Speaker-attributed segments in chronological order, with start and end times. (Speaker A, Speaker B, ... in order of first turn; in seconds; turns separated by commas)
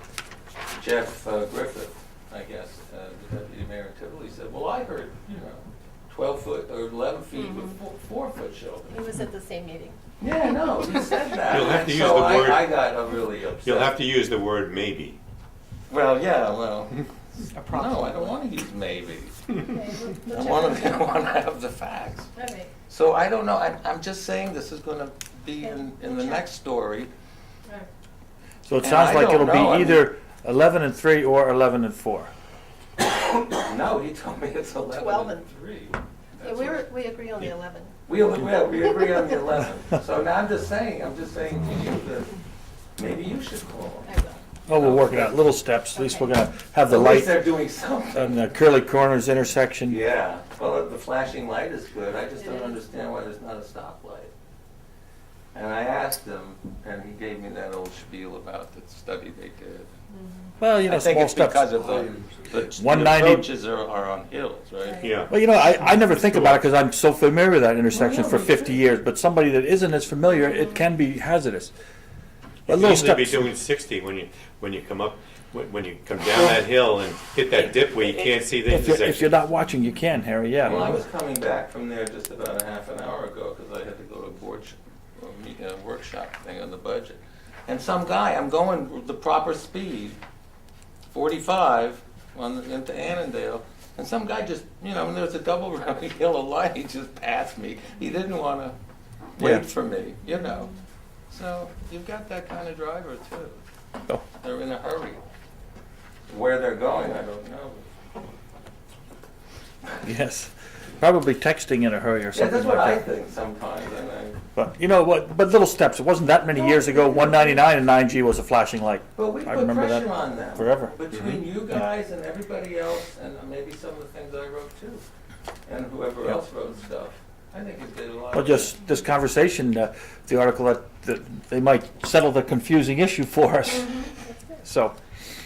Speaker A: 0.7-9.0, Speaker B: 7.3-7.8, Speaker B: 8.9-10.0, Speaker A: 10.2-14.0, Speaker C: 11.4-12.8, Speaker C: 13.6-15.2, Speaker A: 15.9-17.0, Speaker A: 17.6-19.6, Speaker B: 19.6-21.1, Speaker A: 20.3-22.3, Speaker B: 22.4-22.7, Speaker A: 22.9-27.1, Speaker B: 25.6-26.4, Speaker D: 28.6-32.3, Speaker A: 28.8-30.1, Speaker A: 33.5-36.8, Speaker B: 34.9-35.5, Speaker B: 36.4-37.9, Speaker A: 38.1-42.3, Speaker A: 43.0-44.1, Speaker B: 44.0-44.4, Speaker A: 44.7-45.4, Speaker D: 44.7-47.4, Speaker B: 45.9-46.4, Speaker A: 46.9-48.4, Speaker D: 48.1-50.0, Speaker A: 49.9-54.3, Speaker B: 52.4-52.8, Speaker A: 55.5-59.9, Speaker B: 60.1-60.5, Speaker D: 60.6-62.1, Speaker A: 60.8-65.1, Speaker D: 62.6-63.5, Speaker B: 64.8-65.1, Speaker C: 65.0-66.6, Speaker D: 65.3-71.7, Speaker A: 67.9-68.8, Speaker C: 72.7-79.4, Speaker D: 72.7-73.5, Speaker D: 78.6-81.0, Speaker A: 80.6-90.2, Speaker A: 91.1-98.8, Speaker A: 99.4-100.7, Speaker D: 99.4-99.7, Speaker A: 101.3-103.6, Speaker A: 104.4-105.2, Speaker A: 106.3-107.9, Speaker D: 110.0-113.0, Speaker A: 112.3-114.4, Speaker D: 114.6-120.9, Speaker A: 116.5-117.6, Speaker A: 119.2-125.0, Speaker A: 125.7-128.8, Speaker D: 128.3-134.1, Speaker B: 133.8-134.3, Speaker D: 134.6-135.0